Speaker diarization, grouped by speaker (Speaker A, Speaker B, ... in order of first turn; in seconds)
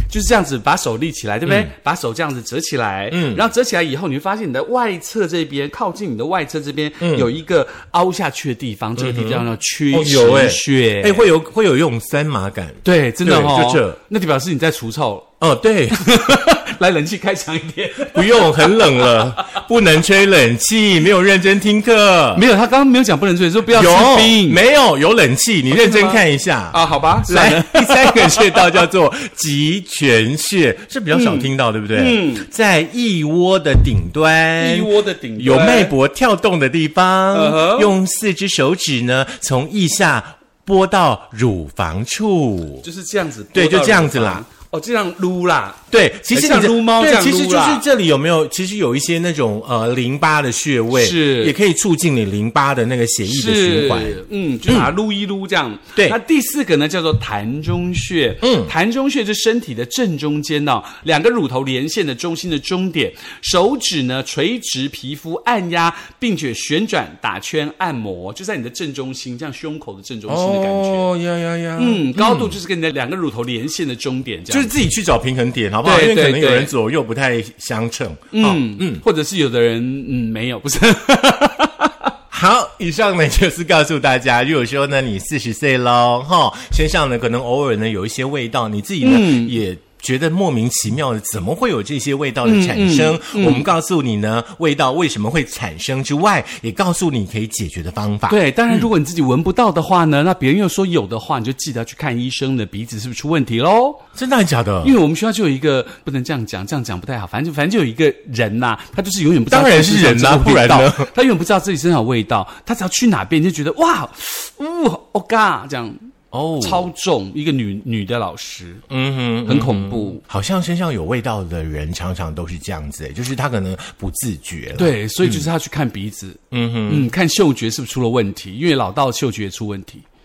Speaker A: 0.1-11.2, 12.8-15.3, 15.9-19.6, 22.4-24.6, 25.7-26.2, 26.7-28.8, 31.1-32.5, 34.6-35.9, 37.3-38.0, 42.8-47.8, 50.9-51.5, 53.3-71.1, 71.8-74.8, 75.8-76.7, 78.3-82.1, 89.0-89.6, 92.5-93.7, 98.3-104.0, 104.8-118.8, 119.5-120.2, 124.8-130.1
Speaker B: 1.5-1.7, 3.1-3.4, 7.0-7.3, 9.0-14.0, 15.4-16.1, 18.1-22.4, 23.7-42.9, 43.5-44.4, 45.9-54.9, 58.4-58.7, 70.3-72.6, 74.5-79.0, 82.3-98.9, 104.1-104.9, 109.5-111.1, 116.3-116.9, 118.9-125.5, 126.5-127.1